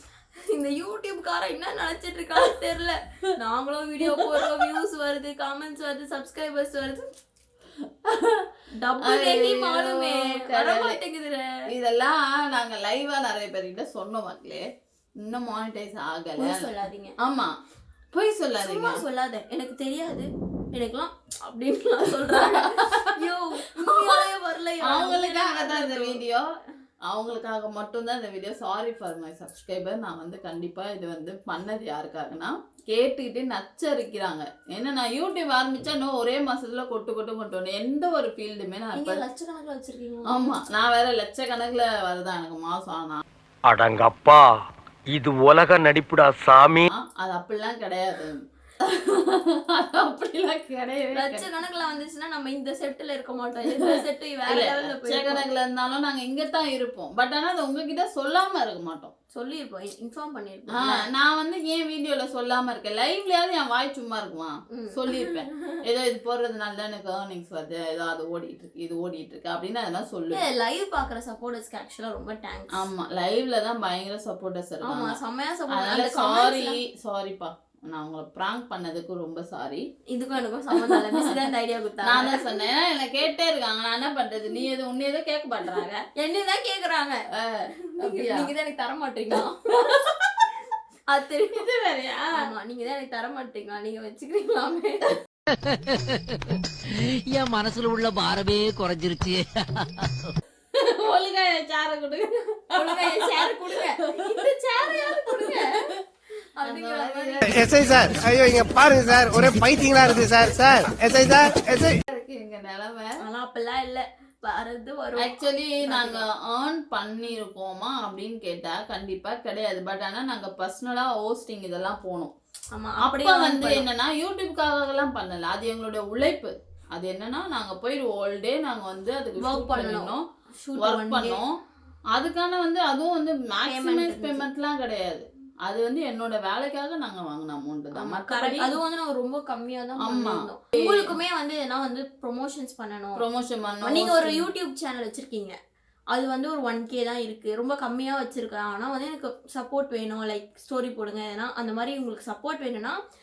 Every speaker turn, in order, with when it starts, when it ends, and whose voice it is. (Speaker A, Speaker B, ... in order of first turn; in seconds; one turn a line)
Speaker A: 0.5-7.0
Speaker B: 4.1-4.5
Speaker B: 8.0-8.5
Speaker A: 8.8-11.5
Speaker B: 9.0-11.0
Speaker B: 11.7-14.6
Speaker B: 15.2-16.6
Speaker A: 16.4-17.1
Speaker B: 17.2-17.5
Speaker B: 18.1-19.0
Speaker A: 18.6-26.2
Speaker B: 22.4-23.1
Speaker B: 23.8-24.1
Speaker B: 24.9-26.5
Speaker B: 27.1-39.2
Speaker A: 38.9-40.5
Speaker B: 40.3-43.2
Speaker C: 43.6-44.5
Speaker C: 45.1-46.9
Speaker B: 46.9-51.5
Speaker A: 51.1-55.5
Speaker B: 54.5-59.1
Speaker A: 59.3-61.0
Speaker B: 60.7-70.4
Speaker A: 64.7-65.5
Speaker A: 70.3-72.9
Speaker B: 72.7-75.2
Speaker A: 74.8-76.8
Speaker B: 75.7-79.8
Speaker A: 80.1-82.6
Speaker B: 80.7-81.3
Speaker B: 82.0-86.0
Speaker A: 86.1-87.2
Speaker B: 87.3-88.5
Speaker A: 87.9-90.0
Speaker A: 91.1-91.6
Speaker B: 91.5-92.5
Speaker A: 92.3-95.2
Speaker D: 95.7-96.1
Speaker D: 97.0-100.3
Speaker B: 100.7-106.0
Speaker A: 102.7-105.9
Speaker A: 106.6-107.6
Speaker B: 106.6-107.6
Speaker E: 107.4-112.0
Speaker B: 112.1-113.1
Speaker A: 113.2-116.2
Speaker B: 115.2-122.3
Speaker A: 122.7-123.8
Speaker B: 123.0-130.2
Speaker A: 129.4-131.4
Speaker B: 130.8-131.6
Speaker B: 132.1-138.7
Speaker A: 133.6-134.5
Speaker A: 137.9-143.2
Speaker B: 140.0-141.1
Speaker B: 143.2-144.5
Speaker A: 143.8-145.5
Speaker A: 146.1-152.9